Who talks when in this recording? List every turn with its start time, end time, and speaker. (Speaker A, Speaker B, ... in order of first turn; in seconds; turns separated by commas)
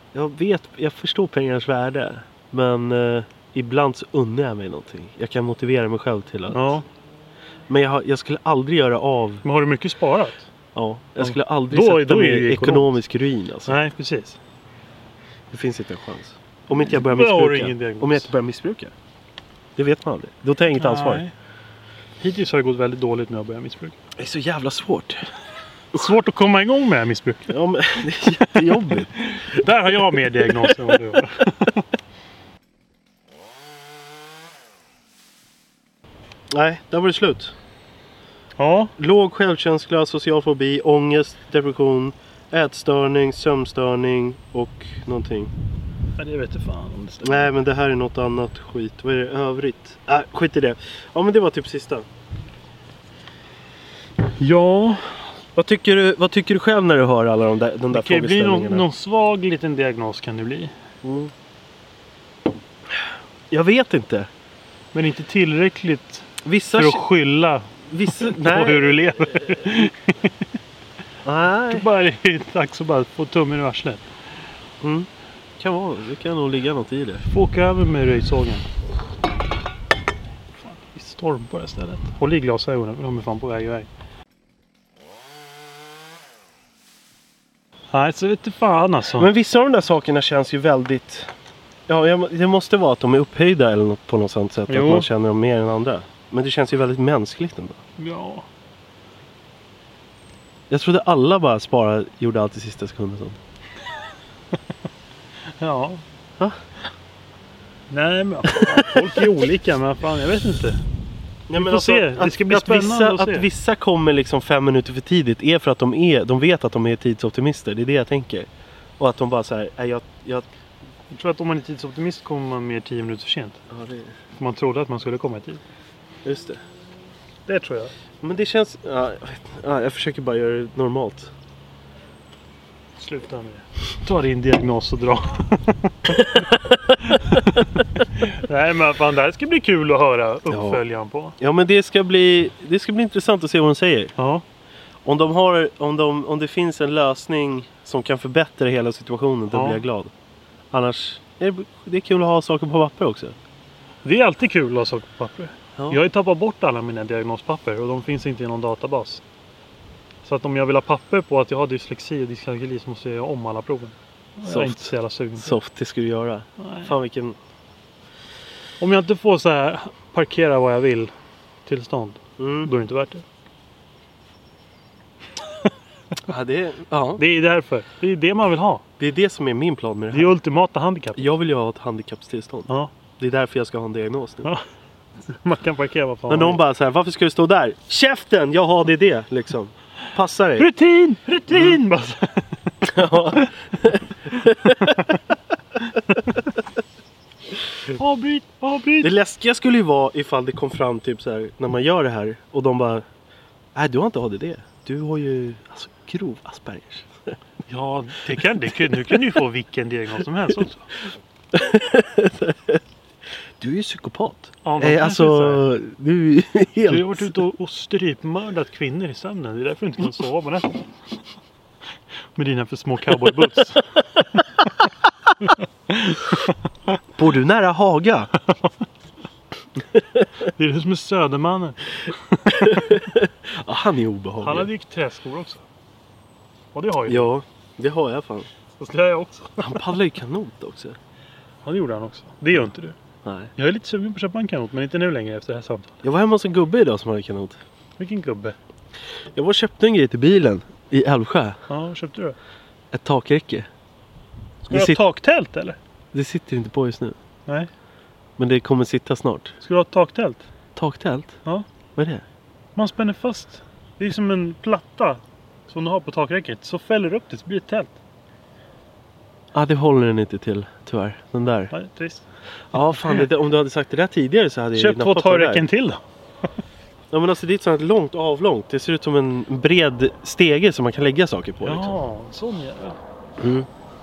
Speaker A: 0.1-6.8, Speaker B: 6.5-6.8, Speaker A: 7.7-9.4, Speaker B: 9.4-10.5, Speaker A: 10.7-13.8, Speaker B: 11.2-12.9, Speaker B: 13.7-14.4, Speaker A: 15.5-18.9, Speaker B: 16.8-18.3, Speaker A: 19.8-21.2, Speaker B: 20.8-21.3, Speaker B: 22.2-23.9, Speaker A: 24.2-25.3, Speaker B: 25.9-27.5, Speaker A: 27.5-29.7, Speaker B: 28.4-31.8, Speaker A: 36.5-37.5, Speaker B: 38.6-38.9, Speaker A: 39.0-45.5, Speaker B: 46.2-47.5, Speaker A: 47.2-52.0, Speaker B: 54.2-55.3, Speaker A: 55.5-58.8, Speaker B: 57.9-60.7, Speaker A: 61.0-61.3, Speaker A: 63.5-64.3, Speaker B: 64.9-70.4, Speaker A: 66.4-67.0, Speaker A: 67.9-69.3, Speaker A: 71.2-71.8, Speaker B: 71.7-74.1, Speaker A: 74.8-75.1, Speaker A: 75.6-77.2, Speaker B: 77.2-78.7, Speaker B: 80.6-83.9, Speaker B: 87.9-89.3, Speaker A: 89.2-91.3, Speaker A: 91.9-97.8, Speaker B: 94.7-95.1, Speaker B: 98.0-98.5, Speaker A: 100.7-103.4, Speaker B: 105.5-106.0, Speaker B: 107.9-110.8, Speaker A: 108.5-109.1, Speaker A: 111.5-120.5, Speaker B: 111.5-113.5, Speaker B: 121.1-123.6, Speaker A: 123.7-124.1, Speaker B: 124.4-125.6, Speaker A: 126.2-126.6, Speaker B: 127.5-127.9, Speaker A: 128.2-131.3, Speaker B: 132.9-136.5, Speaker A: 136.4-137.1, Speaker B: 137.0-141.4, Speaker A: 140.5-140.8, Speaker A: 141.4-144.1, Speaker B: 144.2-144.4, Speaker A: 145.0-150.1, Speaker B: 149.5-149.8, Speaker A: 150.7-153.3, Speaker B: 154.0-159.2, Speaker B: 160.2-165.6, Speaker A: 164.4-167.4, Speaker B: 166.6-166.9, Speaker B: 168.8-171.1, Speaker B: 171.7-173.2, Speaker A: 172.4-172.7, Speaker A: 176.2-177.2, Speaker B: 177.2-178.8, Speaker A: 179.0-180.3, Speaker B: 180.1-181.3, Speaker A: 181.2-184.5, Speaker B: 185.2-186.6, Speaker A: 186.3-190.7, Speaker B: 190.6-193.4, Speaker A: 192.8-195.2, Speaker B: 197.9-199.1, Speaker A: 199.0-203.0, Speaker A: 203.7-207.3, Speaker B: 207.7-210.9, Speaker A: 211.5-212.8, Speaker A: 213.6-217.3, Speaker B: 214.6-215.7, Speaker B: 216.8-220.9, Speaker B: 222.3-223.9, Speaker B: 225.9-226.5, Speaker A: 227.2-228.3, Speaker B: 230.5-232.9, Speaker A: 232.5-234.7, Speaker B: 234.4-235.6, Speaker B: 236.7-237.3, Speaker A: 237.1-238.5, Speaker B: 238.8-239.9, Speaker A: 239.6-241.0, Speaker B: 241.6-242.9, Speaker A: 243.2-243.5, Speaker B: 243.6-246.0, Speaker A: 246.0-247.6, Speaker B: 248.0-248.6, Speaker A: 249.3-251.6, Speaker B: 251.7-252.4, Speaker A: 252.9-253.7, Speaker A: 254.7-255.0, Speaker B: 254.7-255.8, Speaker A: 256.1-257.2, Speaker A: 258.4-259.6, Speaker B: 259.6-260.4, Speaker A: 260.8-261.4, Speaker A: 261.9-262.2, Speaker B: 262.7-267.9, Speaker A: 269.5-271.7, Speaker B: 271.7-272.2, Speaker A: 272.7-275.6, Speaker B: 273.0-273.2, Speaker B: 274.7-276.0, Speaker A: 277.1-281.9, Speaker B: 281.6-283.0, Speaker A: 283.4-283.7